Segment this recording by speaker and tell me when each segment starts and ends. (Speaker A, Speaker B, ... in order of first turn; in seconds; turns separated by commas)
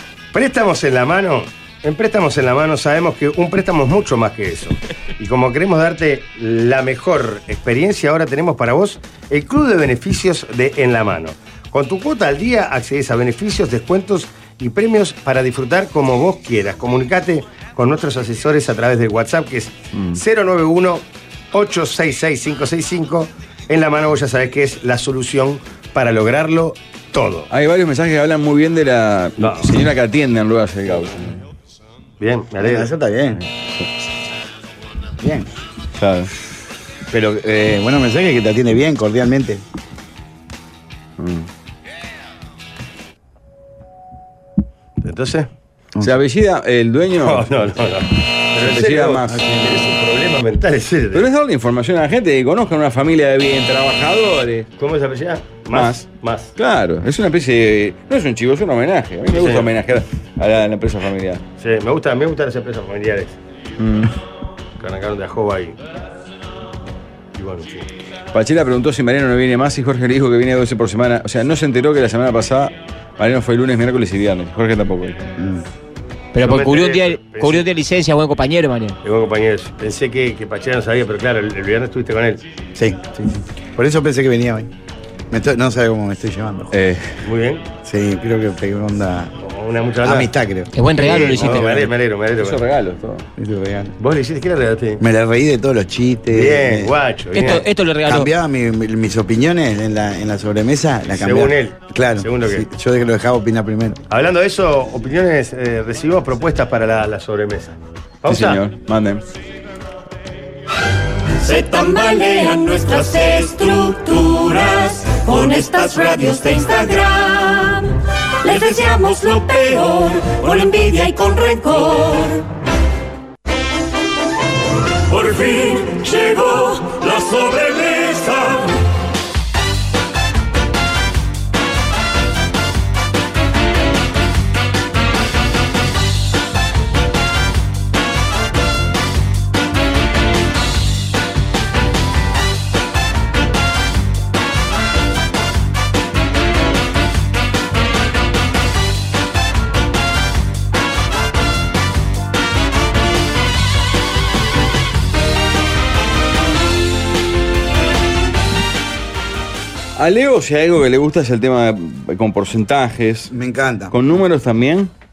Speaker A: 0.3-27.5, Speaker B: 19.9-20.2, Speaker B: 27.5-31.4, Speaker A: 29.4-29.8, Speaker A: 32.2-32.9, Speaker C: 32.6-33.4, Speaker B: 33.4-33.9, Speaker C: 35.2-35.5, Speaker B: 35.9-36.3, Speaker C: 37.1-39.6, Speaker B: 41.2-41.5, Speaker A: 45.0-45.5, Speaker B: 46.0-47.5, Speaker A: 47.2-51.3, Speaker B: 48.6-49.4, Speaker C: 49.3-49.8, Speaker B: 51.1-54.7, Speaker A: 54.8-56.5, Speaker B: 55.7-61.4, Speaker A: 59.3-59.7, Speaker A: 61.6-63.4, Speaker B: 63.8-64.1, Speaker A: 64.8-65.8, Speaker A: 67.3-67.9, Speaker B: 68.3-75.3, Speaker C: 75.4-75.6, Speaker D: 76.3-79.0, Speaker A: 76.4-77.7, Speaker A: 79.0-82.4, Speaker C: 82.7-84.7, Speaker C: 85.3-86.7, Speaker B: 86.7-87.2, Speaker A: 87.2-87.7, Speaker C: 87.8-89.3, Speaker A: 89.4-90.3, Speaker C: 90.0-91.8, Speaker D: 90.7-91.8, Speaker A: 91.0-92.6, Speaker B: 92.4-93.2, Speaker C: 93.4-93.9, Speaker A: 94.0-95.0, Speaker C: 95.0-96.9, Speaker A: 96.3-97.6, Speaker D: 97.3-98.3, Speaker C: 98.0-104.0, Speaker A: 101.1-102.7, Speaker A: 104.1-108.6, Speaker B: 108.3-109.2, Speaker E: 111.4-117.9, Speaker E: 118.4-122.5, Speaker E: 125.1-128.7, Speaker B: 159.9-163.3, Speaker C: 163.3-163.9, Speaker B: 163.9-164.9